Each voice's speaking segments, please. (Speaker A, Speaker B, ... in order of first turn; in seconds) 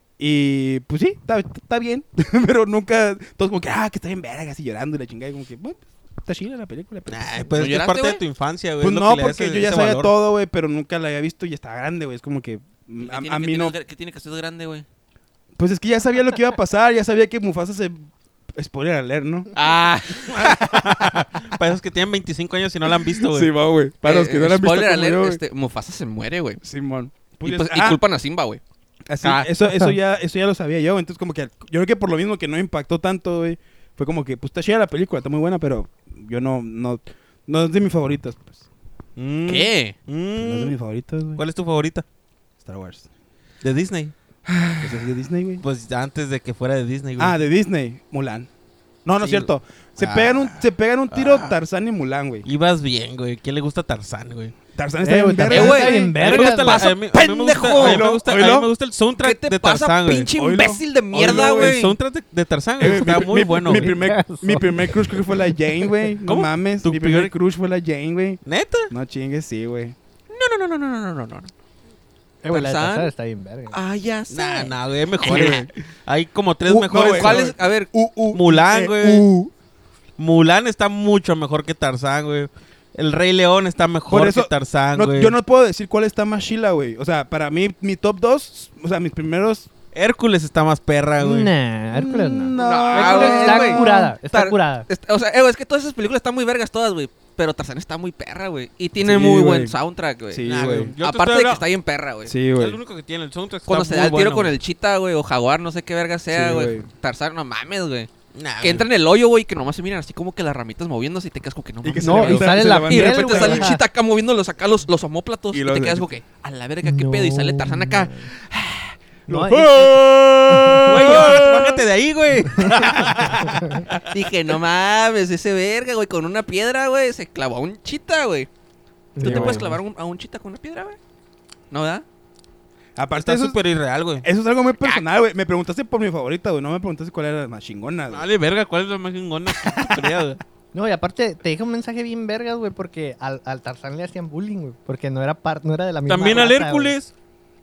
Speaker A: 0.2-7.5, 8.8-13.8, 15.6-19.5, 20.4-21.2, 23.0-25.4, 26.6-28.0, 29.1-38.6, 40.4-41.4, 42.6-43.1, 44.8-45.6, 47.2-48.5, 49.0-52.5, 54.7-56.1, 57.8-58.7, 60.4-61.8, 62.8-70.0, 75.2-75.6, 76.7-79.5, 84.1-89.7, 91.9-94.1, 99.0-99.7, 100.3-100.9, 102.2-102.8, 106.3-106.9, 111.8-113.7, 115.5-116.0, 121.1-121.5, 122.8-123.1, 129.2-129.7, 132.9-133.6, 134.2-138.2
Speaker B: 7.1-10.1, 20.3-23.5, 39.2-40.7, 41.4-42.0, 43.6-44.8, 45.6-47.3, 49.2-50.6, 51.1-51.5, 52.4-54.5, 55.9-60.3, 61.1-63.9, 66.2-67.3, 68.4-68.9, 74.3-77.5, 78.3-79.2, 80.2-85.3, 89.9-91.5, 100.5-101.6, 102.5-104.5, 108.3-108.9, 119.3-124.0, 133.2-134.2, 138.1-140.4, 146.1-147.1
Speaker C: 7.5-8.2, 13.0-14.8, 19.5-20.8, 24.0-26.6, 27.4-28.6, 29.2-29.6, 39.5-40.0, 55.5-58.1, 59.2-62.0, 70.3-71.5, 72.5-73.1, 73.7-75.7, 77.1-77.9, 92.6-100.5, 101.0-102.3, 103.7-108.1, 108.6-118.9, 120.9-121.8, 124.0-128.5, 129.2-131.0, 131.7-132.0
Speaker D: 55.0-56.9, 63.7-66.1, 72.4-73.8, 91.2-94.9, 112.0-113.8, 116.8-118.3, 119.3-120.0, 120.5-121.1, 122.6-123.8, 129.2-129.8, 140.7-147.0